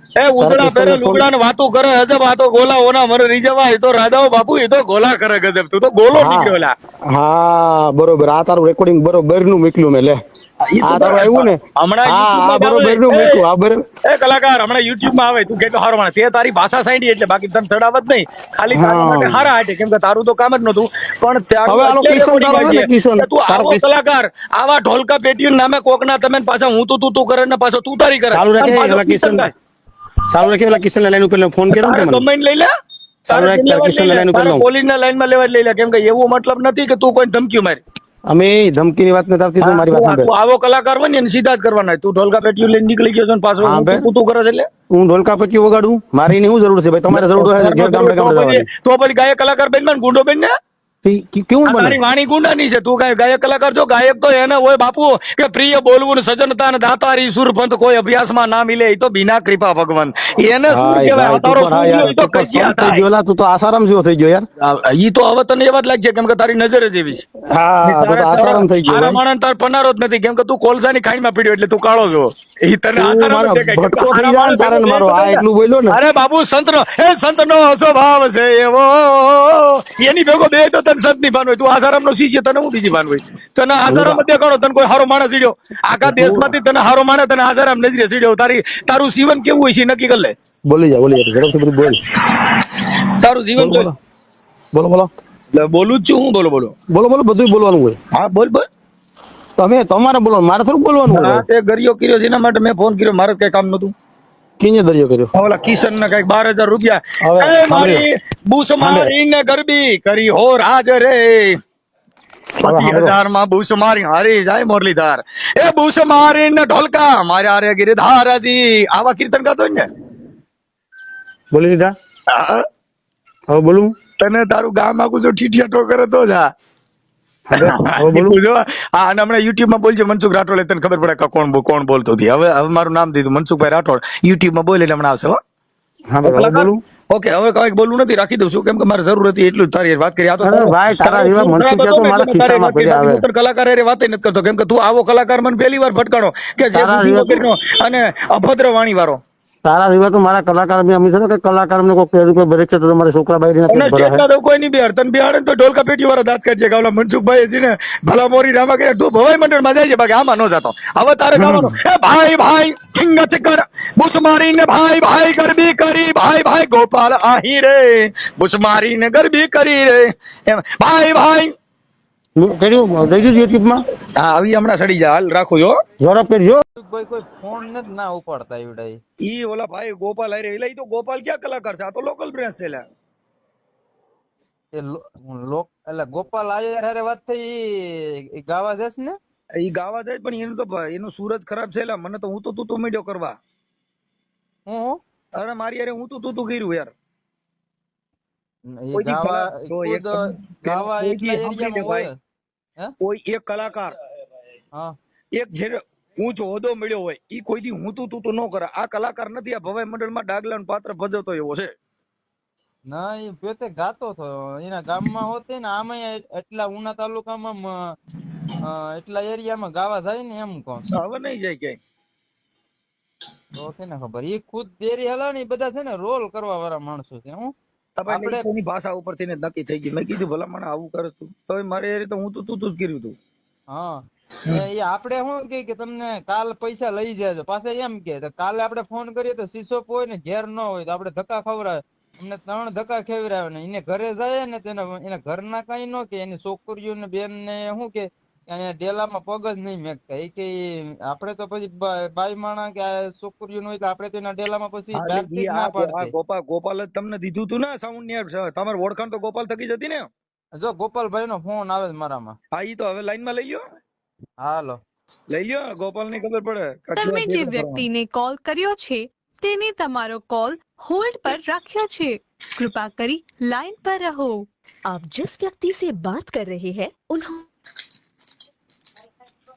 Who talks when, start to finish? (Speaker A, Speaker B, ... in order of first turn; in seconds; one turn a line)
Speaker A: 0.2-6.8
Speaker B: 0.4-1.3
Speaker B: 6.1-6.5
Speaker B: 7.1-10.2
Speaker A: 10.7-13.4
Speaker B: 10.8-13.8
Speaker A: 14.1-29.5
Speaker B: 18.7-19.4
Speaker B: 21.7-23.8
Speaker B: 28.3-29.5
Speaker B: 30.3-32.2
Speaker A: 31.7-32.7
Speaker B: 33.3-34.7
Speaker A: 33.3-37.8
Speaker B: 38.3-40.3
Speaker A: 39.6-44.7
Speaker B: 43.6-44.0
Speaker B: 44.9-48.7
Speaker A: 47.1-50.5
Speaker B: 51.0-52.0
Speaker A: 51.6-63.0
Speaker B: 60.7-64.5
Speaker A: 64.6-67.3
Speaker B: 67.5-69.2
Speaker A: 67.8-90.3
Speaker B: 73.0-76.0
Speaker B: 83.9-84.2
Speaker B: 86.0-86.6
Speaker B: 90.7-92.1
Speaker A: 93.2-93.9
Speaker B: 93.6-94.0
Speaker B: 94.7-95.1
Speaker A: 95.5-96.8
Speaker B: 96.9-98.0
Speaker A: 98.1-98.7
Speaker B: 99.6-101.5
Speaker A: 101.1-103.9
Speaker B: 104.6-105.3
Speaker A: 105.3-111.6
Speaker B: 107.2-108.0
Speaker B: 108.8-109.1
Speaker B: 112.6-113.2
Speaker A: 112.6-119.9
Speaker B: 121.5-121.9
Speaker A: 122.3-122.7
Speaker B: 123.5-123.9
Speaker A: 124.2-126.5
Speaker B: 127.5-128.4
Speaker A: 127.5-135.4
Speaker B: 136.1-136.8
Speaker A: 136.3-149.2
Speaker B: 140.4-143.2
Speaker B: 146.7-147.5
Speaker B: 149.7-154.2
Speaker A: 153.7-171.5
Speaker B: 161.3-161.8
Speaker B: 172.4-173.8
Speaker A: 174.2-175.8
Speaker B: 176.0-176.6
Speaker C: 176.8-179.0
Speaker A: 179.2-182.9
Speaker C: 184.7-189.2
Speaker A: 189.6-193.4
Speaker C: 194.7-195.0
Speaker A: 195.3-196.9
Speaker C: 198.7-202.1
Speaker A: 198.9-202.1
Speaker A: 203.0-203.9
Speaker A: 205.3-211.7
Speaker C: 212.9-217.9
Speaker C: 218.6-220.9
Speaker A: 220.9-221.8
Speaker C: 223.6-227.5
Speaker A: 228.0-233.2
Speaker C: 228.1-228.4
Speaker C: 233.7-256.1
Speaker A: 254.9-260.1
Speaker C: 260.6-262.4
Speaker A: 262.5-263.6
Speaker C: 264.4-264.8
Speaker A: 265.3-267.9
Speaker D: 267.0-274.5
Speaker E: 274.9-277.5